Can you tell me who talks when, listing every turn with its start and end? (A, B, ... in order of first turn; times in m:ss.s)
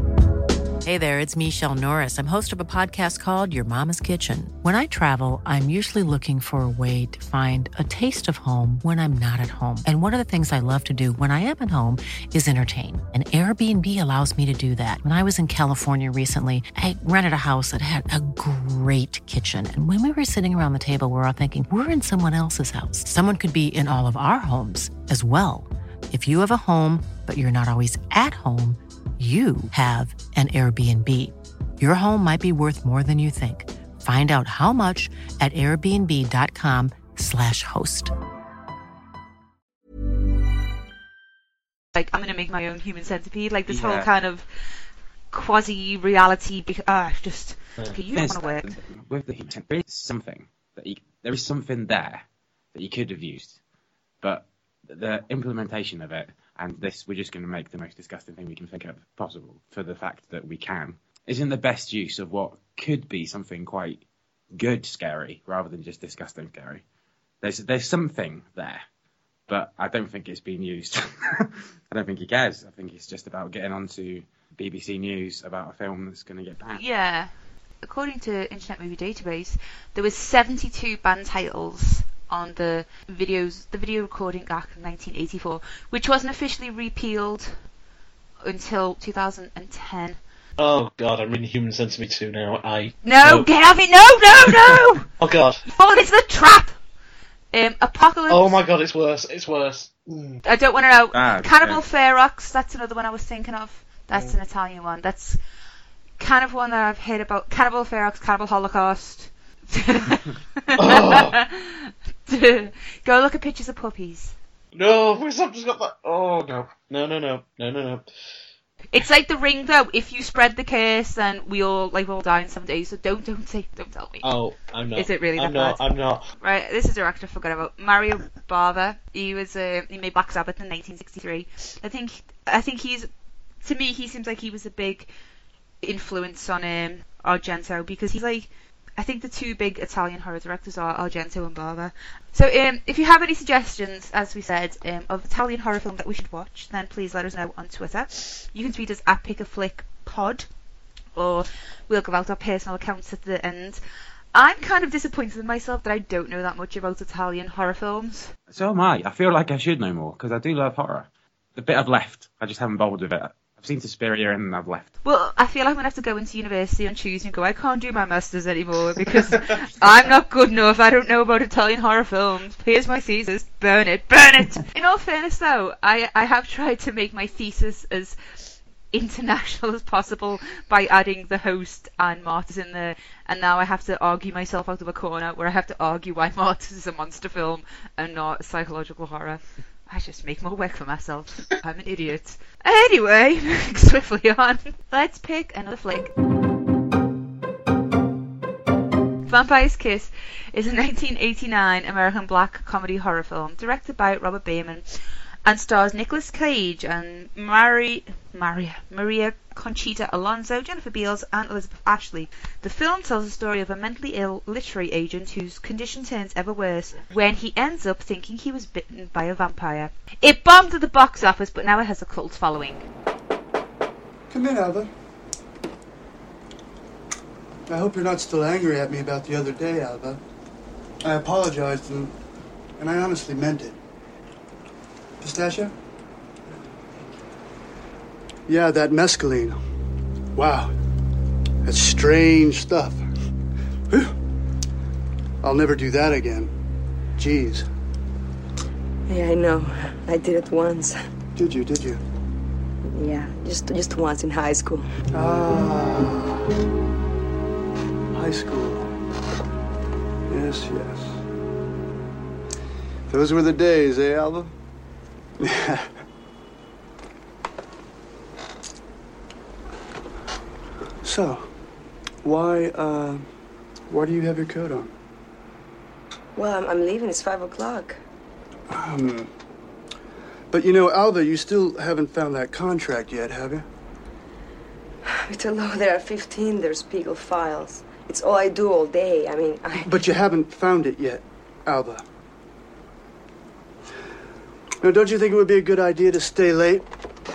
0:00.8-0:38.1 A
0:41.9-0:44.5 B
0:43.7-0:44.1 C
0:45.3-0:48.7 B
0:48.1-0:53.6 C
0:54.2-1:04.0 C
1:04.5-1:06.8 C
1:07.4-1:08.8 C
1:09.5-1:16.8 C
1:16.7-1:17.3 B
1:17.8-1:27.5 B
1:28.4-1:30.2 B
1:30.6-1:33.5 D
1:33.0-1:35.1 B
1:35.2-1:35.6 D
1:35.6-1:36.8 B
1:37.5-1:38.6 B
1:38.3-1:40.4 D
1:40.4-1:45.4 B
1:41.1-1:41.8 C
1:46.2-1:54.3 B
1:50.8-1:51.4 D
1:54.7-1:58.0 D
1:58.9-2:04.3 B
2:04.2-2:06.2 D
2:05.0-2:05.8 B
2:06.3-2:13.1 B
2:13.6-2:15.1 B
2:15.8-2:30.5 B
2:31.2-2:33.8 B
2:34.3-2:38.3 B
2:38.5-2:44.9 C
2:45.0-2:58.2 B
2:58.9-3:16.1 B
3:19.3-3:24.8 B
3:25.4-3:42.8 B
3:44.3-3:44.9 E
3:47.7-3:50.2 E
3:51.0-3:52.1 E
3:52.8-3:53.8 E
3:55.2-3:55.7 E
3:58.5-3:59.6 E
4:00.3-4:00.7 E
4:01.6-4:03.0 E
4:03.9-4:04.2 E
4:05.4-4:06.5 E
4:07.2-4:07.7 E
4:09.1-4:11.0 F
4:11.4-4:12.0 E
4:12.8-4:14.9 F
4:15.1-4:16.4 E
4:18.1-4:18.9 E
4:20.3-4:21.2 E
4:23.1-4:24.5 E
4:25.4-4:25.9 E
4:31.0-4:31.5 E
4:32.2-4:33.3 E
4:33.9-4:34.9 E
4:36.3-4:38.0 F
4:38.7-4:39.3 E
4:40.5-4:43.6 E
4:45.0-4:50.0 F
4:49.8-4:52.0 E
4:54.8-4:56.9 E